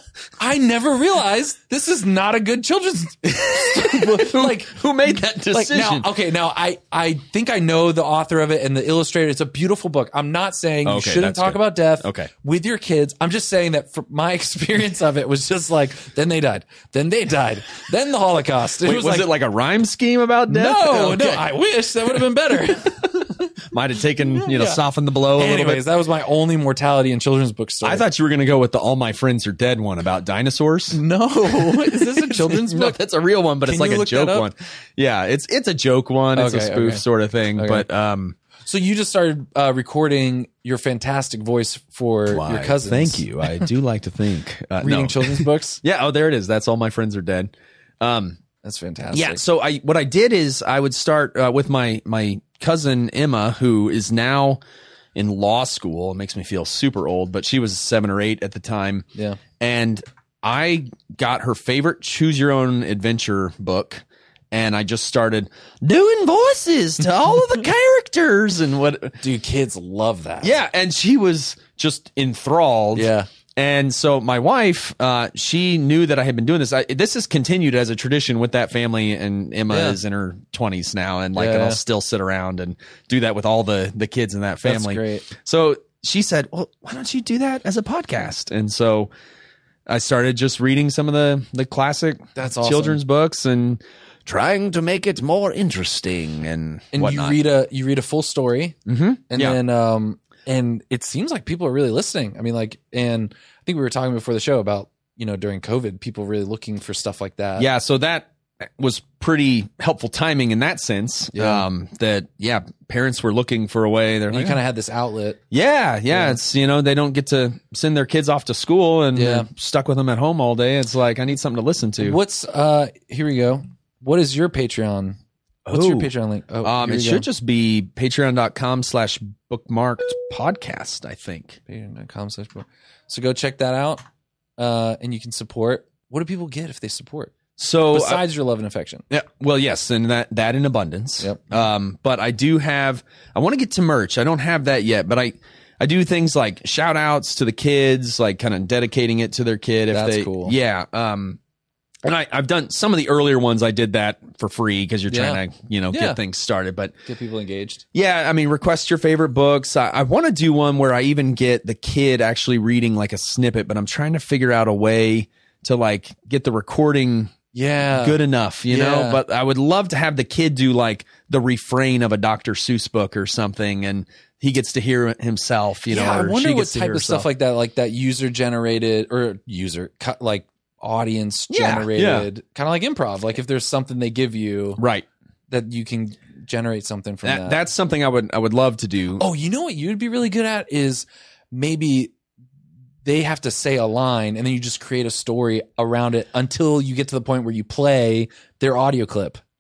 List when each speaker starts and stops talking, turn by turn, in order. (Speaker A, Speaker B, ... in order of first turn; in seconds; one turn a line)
Speaker A: 0.4-4.8
Speaker B: 3.2-6.1
Speaker A: 5.5-19.3
Speaker B: 10.8-12.3
Speaker B: 18.8-21.5
Speaker A: 20.5-23.5
Speaker B: 23.7-25.9
Speaker A: 24.4-24.8
Speaker A: 25.4-28.0
Speaker B: 27.8-38.4
Speaker A: 30.9-33.0
Speaker A: 33.6-34.5
Speaker A: 36.4-37.0
Speaker A: 37.6-37.9
Speaker A: 38.7-43.7
Speaker B: 42.3-48.4
Speaker A: 44.8-45.8
Speaker A: 48.6-49.4
Speaker B: 49.1-54.6
Speaker B: 55.1-59.1
Speaker A: 59.1-59.4
Speaker B: 59.6-69.2
Speaker A: 69.2-70.5
Speaker B: 70.4-89.1
Speaker A: 73.0-73.3
Speaker A: 79.7-80.0
Speaker A: 81.4-81.8
Speaker A: 84.6-85.3
Speaker B: 89.9-97.4
Speaker A: 92.4-93.0
Speaker A: 96.9-98.8
Speaker B: 98.9-99.6
Speaker A: 99.3-107.7
Speaker B: 107.6-114.6
Speaker A: 111.3-111.7
Speaker A: 114.3-115.4
Speaker B: 115.5-122.2
Speaker A: 116.1-116.4
Speaker A: 119.2-119.5
Speaker A: 122.0-125.2
Speaker B: 125.7-126.1
Speaker A: 125.7-127.3
Speaker B: 126.6-131.6
Speaker A: 131.7-134.0
Speaker A: 134.6-137.3
Speaker B: 137.6-138.2
Speaker A: 137.9-139.0
Speaker B: 139.1-151.4
Speaker A: 141.2-141.5
Speaker A: 149.9-150.6
Speaker B: 152.0-156.9
Speaker A: 155.1-156.2
Speaker A: 157.1-157.8
Speaker B: 157.9-167.3
Speaker A: 167.5-169.2
Speaker B: 167.9-177.3
Speaker A: 175.9-184.8
Speaker B: 181.5-182.3
Speaker B: 184.8-185.1
Speaker A: 185.5-187.6
Speaker B: 187.2-189.2
Speaker A: 189.2-192.1
Speaker A: 193.0-199.4